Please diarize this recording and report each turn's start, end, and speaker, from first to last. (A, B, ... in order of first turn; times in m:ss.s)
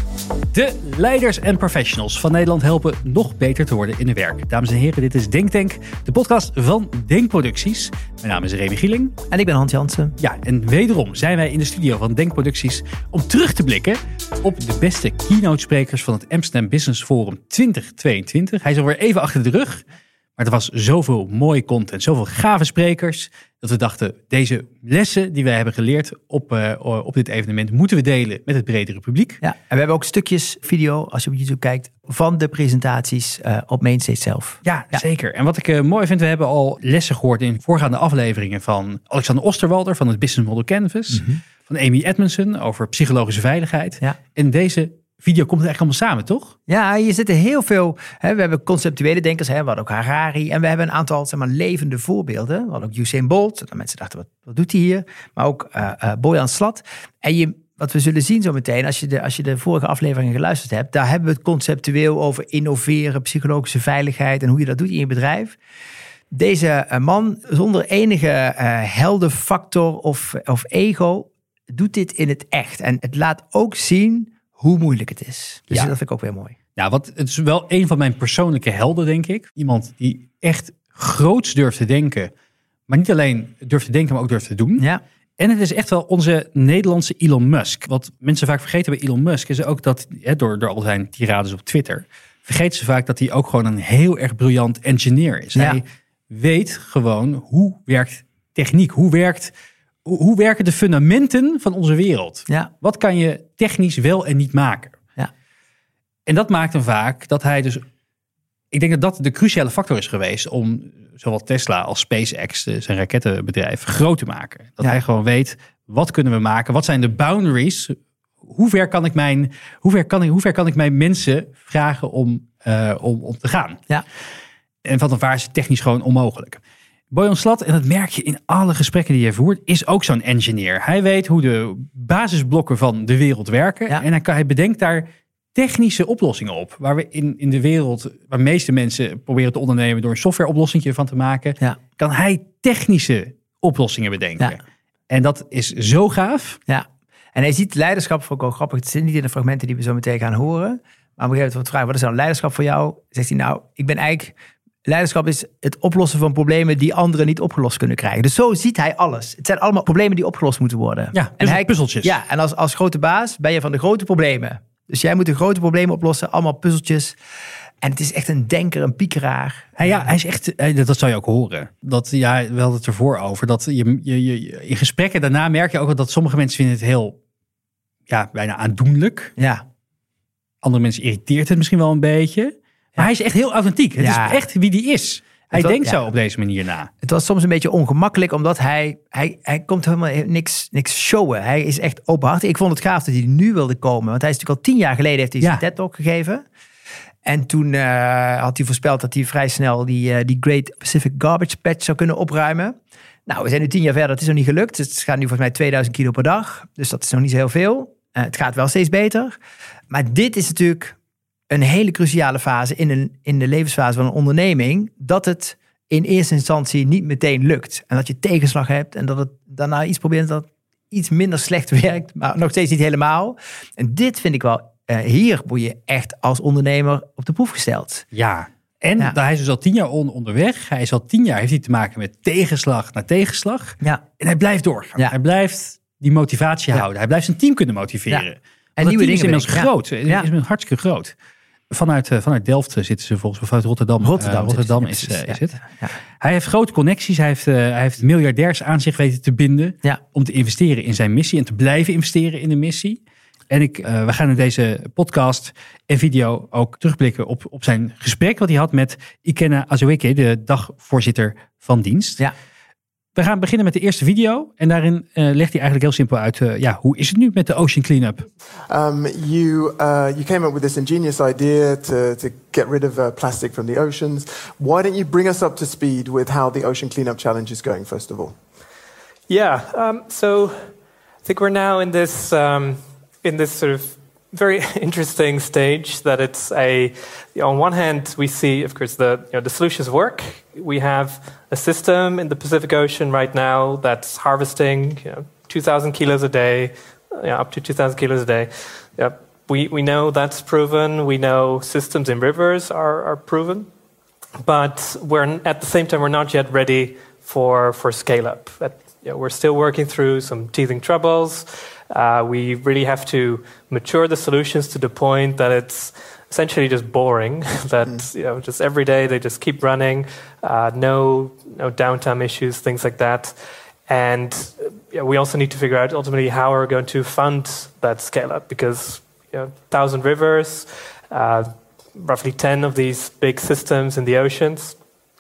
0:00.5-0:09.2 A
0:09.3-0:10.2 B
0:10.2-0:19.8 A
0:20.4-0:29.4 A
0:29.4-0:35.0 B
0:34.6-0:46.6 A
0:41.1-0:41.4 B
0:46.7-1:05.6 B
1:06.3-1:16.6 B
1:16.8-1:22.3 A
1:22.9-1:24.9 A
1:25.4-1:39.5 A
1:35.6-1:35.8 B
1:40.0-1:45.0 A
1:46.3-1:47.8 A
1:48.7-2:03.8 A
2:04.8-2:06.6 A
2:07.1-2:26.6 A
2:26.7-2:47.2 B
2:41.1-2:42.2 A
2:47.8-2:50.0 B
2:49.8-2:57.2 A
2:58.1-2:59.3 A
2:59.4-2:59.6 B
3:00.6-3:06.9 A
3:04.0-3:04.4 B
3:05.5-3:06.0 B
3:07.0-3:16.4 B
3:17.2-3:29.4 B
3:29.9-3:31.0 B
3:31.5-3:48.1 B
3:48.1-4:01.1 A
3:58.8-4:00.3 B
4:01.7-4:05.6 A
4:04.0-4:05.9 B
4:06.2-4:22.2 A
4:23.2-4:28.3 A
4:28.7-4:38.4 C
4:39.3-5:03.7 D
5:04.4-5:34.8 D